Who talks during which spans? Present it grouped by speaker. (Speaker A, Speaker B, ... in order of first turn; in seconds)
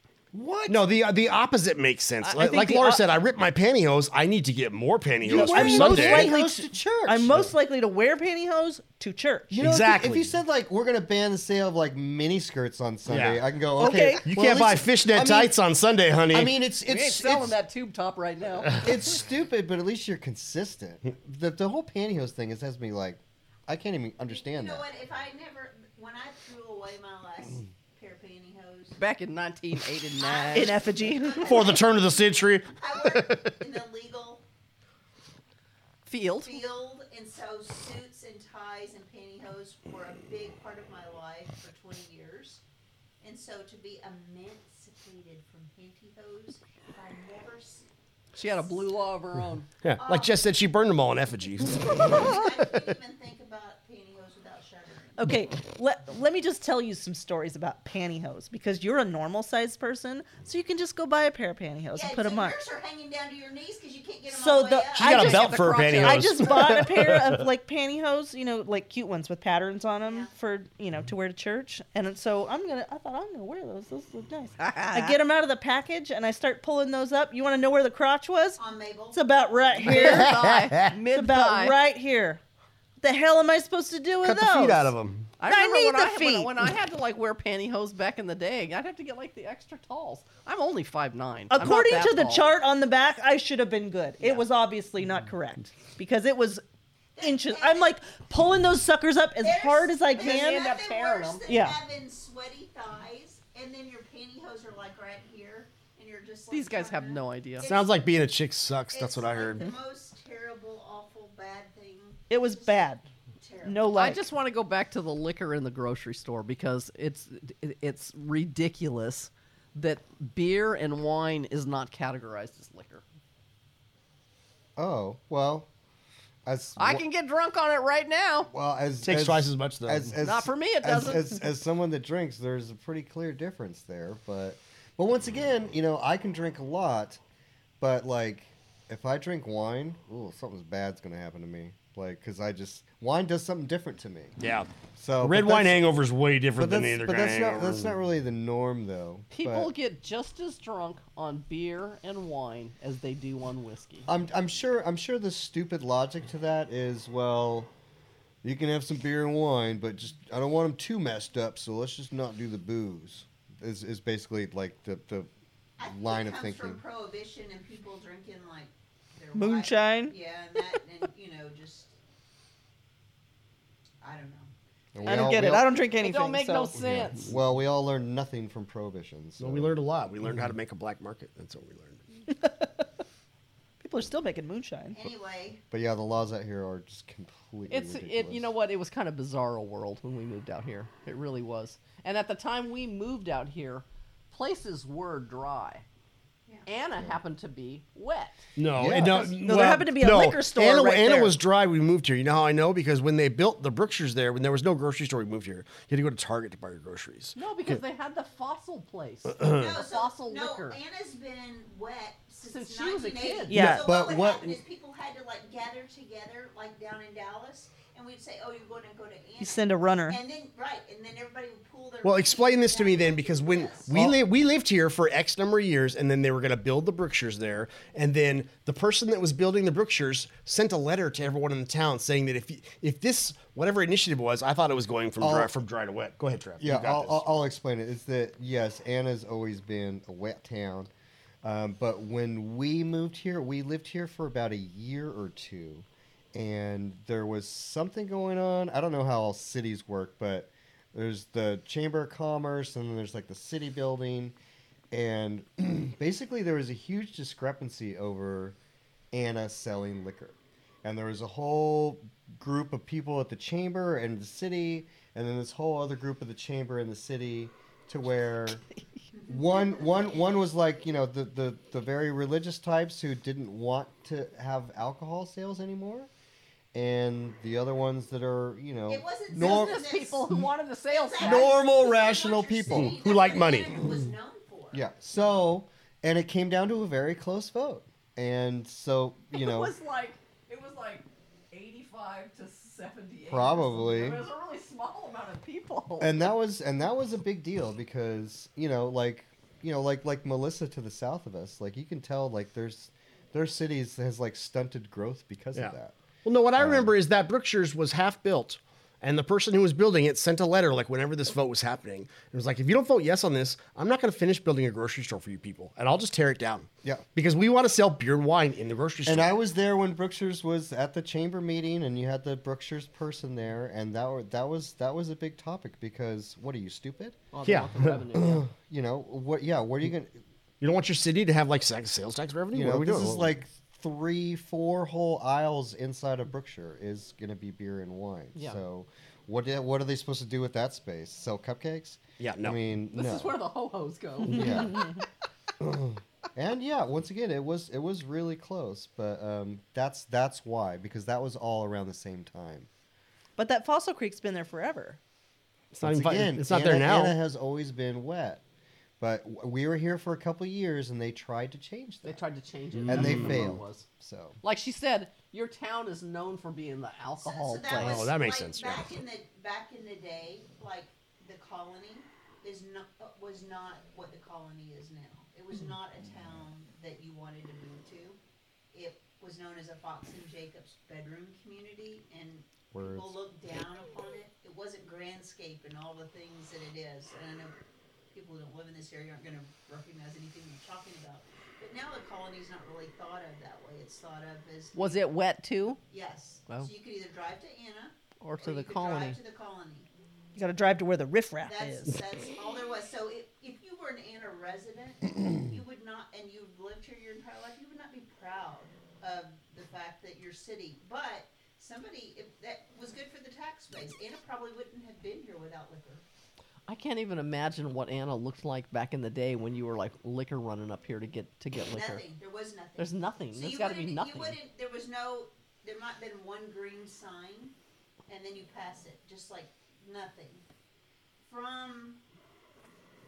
Speaker A: 0.3-0.8, 5.2-7.5, 9.5-15.6, 16.3-17.6, 18.8-24.9, 124.8-125.7, 126.5-127.0, 128.5-137.2, 137.8-144.3, 145.0-145.8, 146.6-149.7, 154.1-157.7, 158.4-165.3, 165.8-166.8, 174.9-175.7, 177.2-179.7, 185.7-188.5, 198.8-199.4, 213.6-214.6, 223.9-224.2, 235.2-235.5, 236.6-240.9, 241.4-254.3, 254.9-258.6, 259.1-268.6, 269.3-276.1, 276.7-279.9, 281.2-283.0, 284.7-289.8, 293.3-294.2, 296.0-306.0, 306.6-306.9, 319.1-327.2, 328.2-330.2, 332.5-343.4, 344.3-344.9, 345.6-352.7, 355.8-358.4, 359.0-362.2, 362.9-364.4, 382.7-383.1
Speaker B: 0.7-6.3, 9.5-10.3, 13.1-13.4, 14.2-16.6, 31.4-33.5, 49.8-52.8, 65.0-67.5, 79.9-81.0, 84.2-85.3, 107.6-109.7, 129.0-130.2, 144.4-144.7, 145.2-147.9, 179.4-182.0, 198.6-207.8, 209.3-209.8, 222.0-237.3, 281.5-283.9, 306.2-319.3, 327.4-328.0, 330.6-333.3, 342.2-342.6, 355.7-357.2, 362.8-363.6, 367.8-368.9
Speaker C: 2.2-3.0, 5.3-9.5, 13.8-14.2, 30.5-31.6, 55.2-62.6, 64.3-78.6, 79.1-80.3, 81.1-82.4, 83.0-86.5, 91.5-96.6, 97.2-100.8, 101.5-101.8, 112.3-113.1, 113.6-114.2, 169.3-170.1, 175.0-176.7, 182.4-182.8, 183.8-185.0, 199.1-201.4, 213.5-213.9, 219.4-220.2, 353.4-355.0, 400.4-402.0
Speaker D: 16.9-19.1, 29.0-30.8, 36.1-36.6, 48.4-49.7, 65.1-66.7, 74.6-75.2, 79.8-81.8, 85.4-92.5, 100.2-101.5, 106.5-107.7, 113.9-123.0, 126.8-128.5, 130.2-131.3, 149.3-154.1, 176.0-177.3, 187.7-195.8, 196.7-198.4, 207.4-210.8, 212.4-213.6, 279.3-281.6, 289.3-296.2, 327.3-328.5, 338.4-338.6, 342.9-345.1, 362.0-363.9, 364.4-368.1, 394.8-395.8, 398.2-399.2, 416.7-422.0, 422.8-424.4
Speaker E: 24.3-29.0, 30.1-34.4, 36.4-42.6, 43.2-47.9, 48.5-48.7, 50.0-50.4, 51.8-55.2, 61.9-65.4, 70.0-70.3, 78.6-79.2, 97.2-98.0, 99.4-108.1, 108.9-114.0, 165.8-172.0, 174.0-174.5, 184.9-185.6, 209.5-223.9, 269.1-270.1, 278.9-280.4, 280.9-284.9, 367.2-378.2, 378.7-387.6, 388.1-395.1, 395.9-399.9, 401.5-416.1, 421.7-427.6, 428.1-430.4, 431.2-432.0